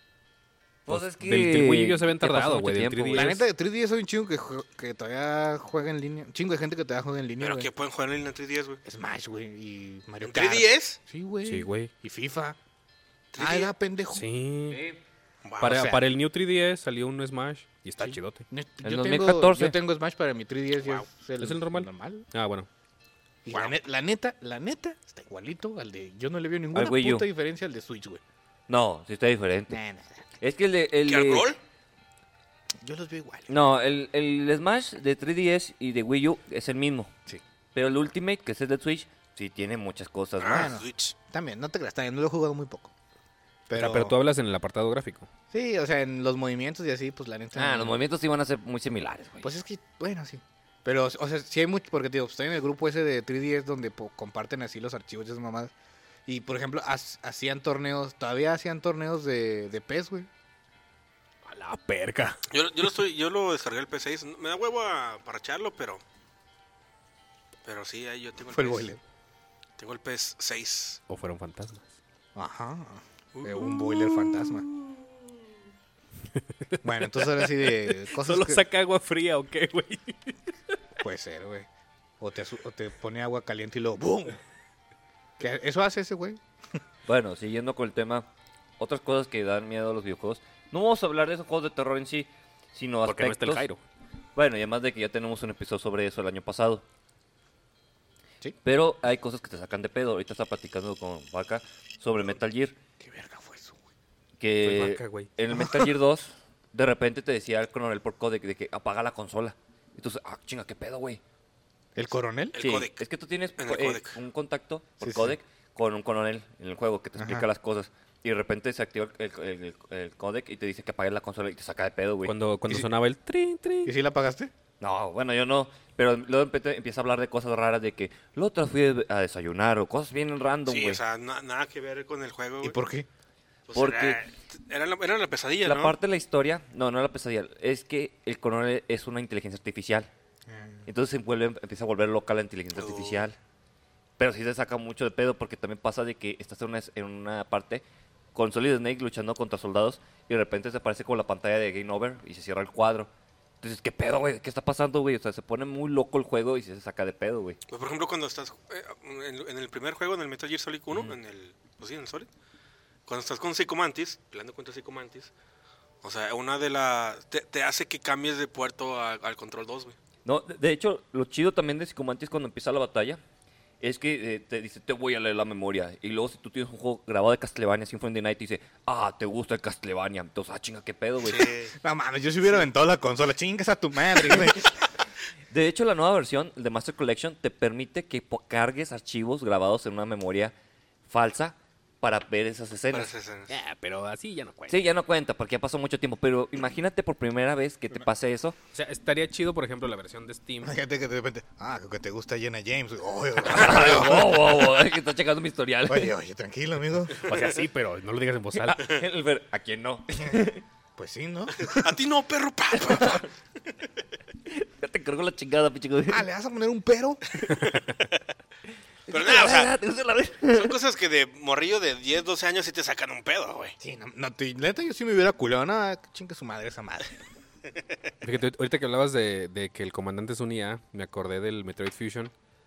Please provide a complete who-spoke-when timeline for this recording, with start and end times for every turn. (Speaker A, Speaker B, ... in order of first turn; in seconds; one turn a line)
Speaker A: 0.9-3.4
Speaker B: 0.9-3.4
Speaker C: 3.1-7.7
Speaker D: 7.4-8.8
Speaker C: 8.8-12.6
Speaker D: 10.2-11.0
Speaker B: 11.4-11.9
Speaker D: 13.3-13.7
Speaker C: 13.4-14.3
Speaker B: 14.1-14.8
Speaker A: 14.7-15.0
Speaker D: 15.4-15.8
Speaker C: 15.6-16.2
Speaker B: 15.6-18.4
Speaker C: 18.0-22.3
Speaker A: 18.8-19.8
Speaker B: 21.4-22.7
Speaker C: 23.4-28.2
Speaker D: 23.5-23.8
Speaker A: 26.7-27.3
Speaker A: 28.7-29.8
Speaker C: 29.7-30.2
Speaker A: 30.4-31.5
Speaker D: 31.1-31.6
Speaker C: 32.8-33.5
Speaker A: 33.5-37.1
Speaker A: 37.7-40.7
Speaker D: 40.4-41.1
Speaker C: 40.5-42.9
Speaker C: 43.7-44.2
Speaker B: 43.7-45.3
Speaker C: 45.5-48.0
Speaker A: 47.6-49.5
Speaker C: 49.4-55.7
Speaker C: 56.3-60.3
Speaker B: 61.5-62.4
Speaker D: 62.5-66.0
Speaker D: 67.7-68.9
Speaker C: 68.5-69.0
Speaker D: 69.8-71.0
Speaker B: 71.1-71.9
Speaker C: 72.3-74.7
Speaker B: 73.5-75.1
Speaker B: 76.4-80.8
Speaker C: 76.8-78.7
Speaker C: 81.0-81.7
Speaker C: 82.2-84.4
Speaker C: 85.4-86.4
Speaker A: 87.1-88.3
Speaker A: 88.8-93.6
Speaker B: 93.1-93.8
Speaker A: 94.4-96.8
Speaker A: 98.6-102.8
Speaker C: 103.0-103.8
Speaker A: 104.4-111.2
Speaker B: 104.6-105.3
Speaker C: 105.5-105.9
Speaker C: 112.0-112.6
Speaker D: 112.5-113.0
Speaker A: 112.6-122.3
Speaker D: 113.6-114.2
Speaker C: 115.0-115.4
Speaker C: 117.2-117.5
Speaker B: 122.2-123.9
Speaker C: 123.8-124.5
Speaker A: 124.8-131.0
Speaker D: 130.7-132.8
Speaker C: 132.6-133.1
Speaker D: 133.7-136.0
Speaker A: 133.7-134.2
Speaker A: 135.6-140.1
Speaker C: 140.5-140.9
Speaker A: 140.9-143.4
Speaker D: 142.8-143.3
Speaker A: 144.2-153.1
Speaker A: 153.6-157.6
Speaker D: 157.7-162.3
Speaker D: 163.1-165.3
Speaker D: 166.0-170.0
Speaker A: 170.2-173.2
Speaker A: 173.8-181.6
Speaker D: 181.3-181.7
Speaker C: 181.7-184.9
Speaker A: 185.5-190.6
Speaker A: 191.1-193.1
Speaker D: 192.9-193.6
Speaker B: 193.5-194.8
Speaker A: 194.7-198.6
Speaker B: 198.7-200.7
Speaker C: 200.6-204.7
Speaker A: 203.4-206.1
Speaker C: 205.9-207.2
Speaker B: 207.2-208.9
Speaker A: 208.6-210.6
Speaker C: 211.0-211.9
Speaker D: 211.5-213.3
Speaker A: 212.9-213.2
Speaker A: 214.5-216.3
Speaker C: 216.1-217.2
Speaker B: 217.5-217.9
Speaker D: 219.1-219.7
Speaker A: 219.1-220.8
Speaker D: 220.5-223.8
Speaker C: 223.8-227.2
Speaker B: 228.2-232.3